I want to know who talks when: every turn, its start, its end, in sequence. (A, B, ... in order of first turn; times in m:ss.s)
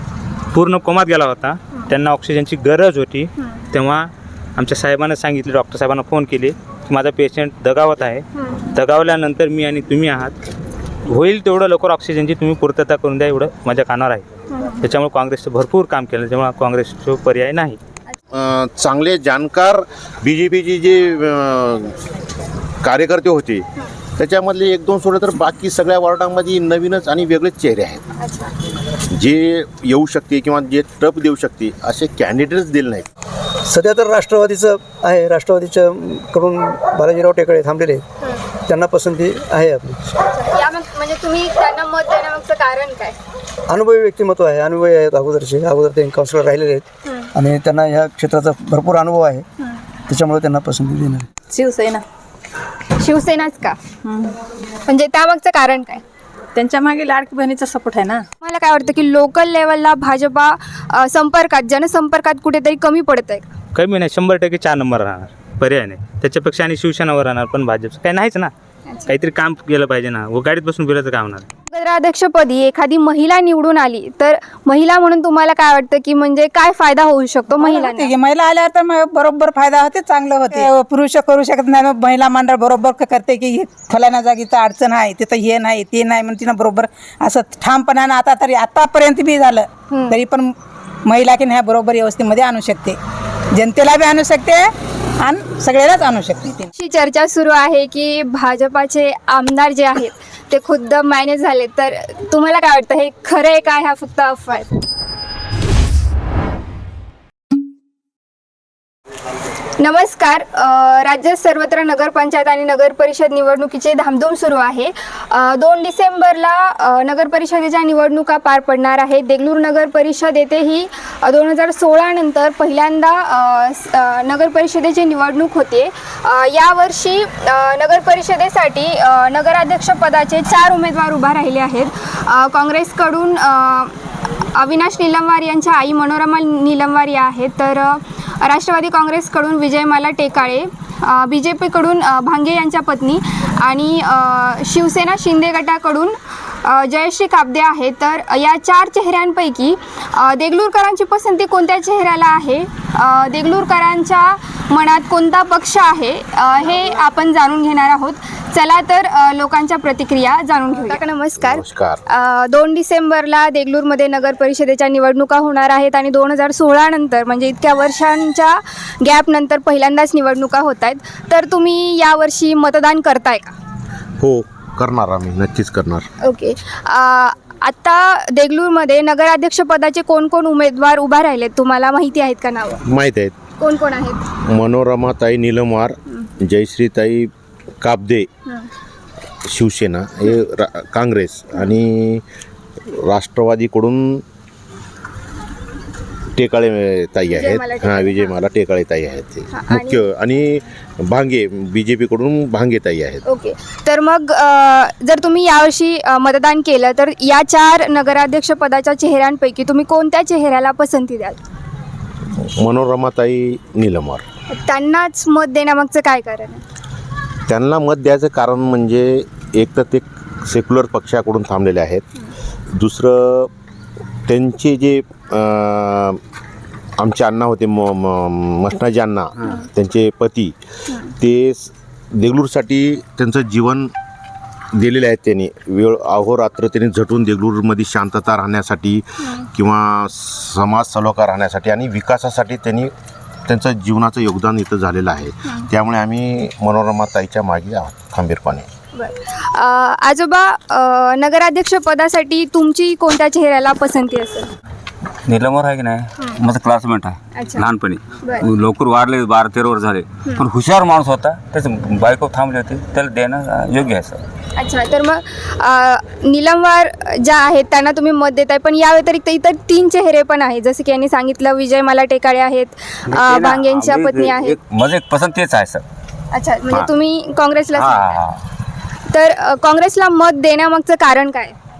0:00.5-0:10.3 A
0:08.3-0:08.6 B
0:11.1-0:14.2 A
0:14.5-0:14.8 B
0:14.8-0:17.8 A
0:18.3-0:21.9 C
0:22.8-0:23.6 C
0:24.2-0:28.0 C
0:28.2-0:28.5 B
0:29.1-0:33.0 C
0:33.7-0:38.0 D
0:38.7-0:40.0 D
0:40.3-0:43.2 B
0:43.7-0:49.4 D
0:50.1-0:51.3 D
0:51.5-0:52.0 E
0:53.0-0:53.8 B
0:54.0-0:54.3 E
0:54.8-0:56.0 B
0:56.5-0:58.2 E
0:58.4-1:03.5 B
1:03.7-1:08.5 A
1:09.1-1:11.5 A
1:11.7-1:18.1 B
1:17.5-1:30.5 F
1:29.9-1:30.2 B
1:31.0-1:33.0 F
1:33.5-1:36.7 F
1:36.8-1:44.7 B
1:49.8-2:14.0 B
2:14.5-2:53.5 B
2:41.4-2:42.0 C
2:54.2-2:56.1 C
2:56.2-3:02.8 B
3:02.8-3:03.3 C
3:03.6-3:04.2 B
3:04.4-3:07.3 C
3:07.8-3:08.3 C
3:09.4-3:12.2 C
3:12.9-3:14.2 C
3:16.4-3:23.2 C
3:17.3-3:18.3 B
3:19.5-3:20.0 B
3:23.2-3:31.4 B
3:32.4-3:34.2 C
3:34.5-3:36.6 B
3:37.5-3:42.0 C
3:42.7-3:43.5 C
3:44.3-3:46.2 C
3:47.0-3:50.5 C
3:51.2-3:53.9 C
3:54.7-4:02.9 C
4:03.5-4:08.7 C
4:08.9-4:14.5 B
4:15.3-4:24.2 G
4:17.4-4:17.6 B
4:24.6-4:34.6 B
4:33.1-4:35.8 G
4:36.3-4:38.2 B
4:37.7-4:38.4 G
4:39.1-4:41.6 B